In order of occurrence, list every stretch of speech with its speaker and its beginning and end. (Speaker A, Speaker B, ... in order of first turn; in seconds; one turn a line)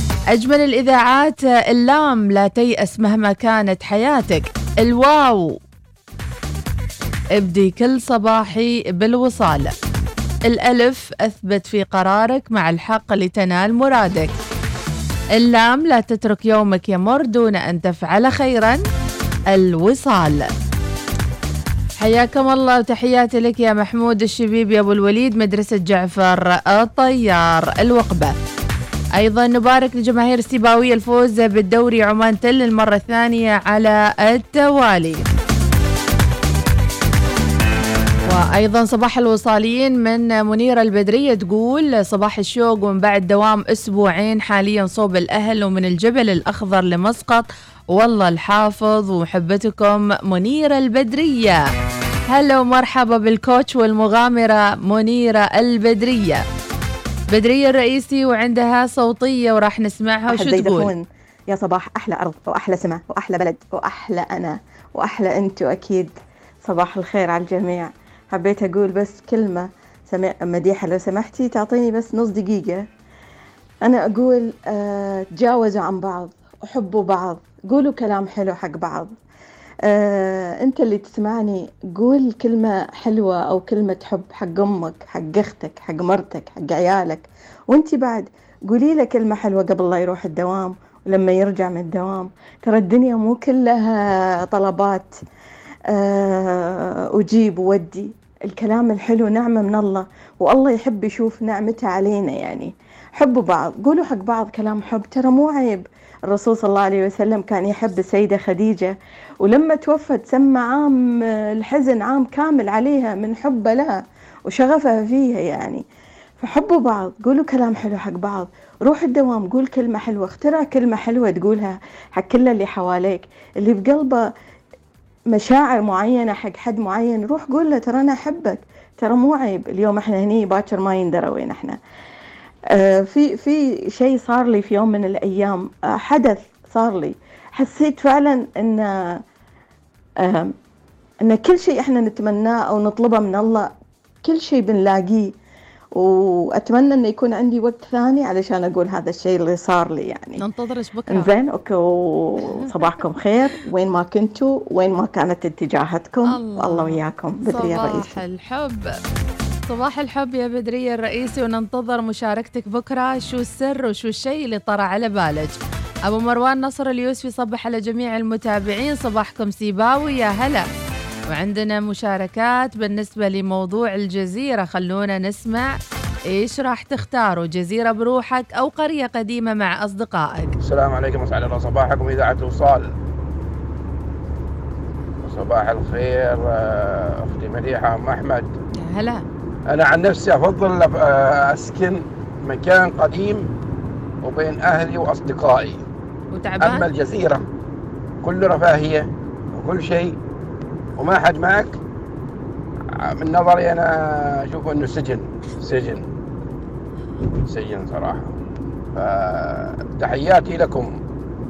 Speaker A: 0.3-5.5
Speaker A: 7.4-9.7
Speaker A: 10.4-14.3
Speaker A: 15.3-18.8
Speaker A: 19.5-20.4
Speaker A: 22.0-28.3
Speaker A: 29.1-35.2
Speaker A: 38.3-51.6
Speaker A: 52.3-56.4
Speaker A: 57.3-60.9
Speaker B: 60.3-72.8
Speaker B: 73.8-79.1
Speaker B: 79.8-95.1
Speaker B: 95.9-113.9
Speaker B: 114.5-115.8
Speaker B: 116.4-124.3
Speaker B: 125.3-131.8
Speaker B: 132.7-139.2
Speaker B: 140.2-140.5
Speaker B: 141.2-143.7
Speaker B: 144.2-145.3
Speaker B: 145.9-150.4
Speaker A: 150.4-151.3
Speaker B: 151.1-158.2
Speaker A: 156.3-158.9
Speaker A: 159.7-170.7
Speaker A: 171.3-175.7
Speaker A: 176.3-180.5
Speaker C: 180.6-182.9
Speaker C: 185.2-188.5
Speaker A: 188.8-189.2
Speaker C: 189.7-193.5
Speaker C: 194.2-195.8
Speaker A: 196.3-196.9
Speaker C: 196.6-197.4
Speaker C: 198.2-200.2
Speaker C: 201.0-201.8
Speaker C: 202.9-206.0
Speaker C: 207.4-208.4
Speaker C: 208.9-210.9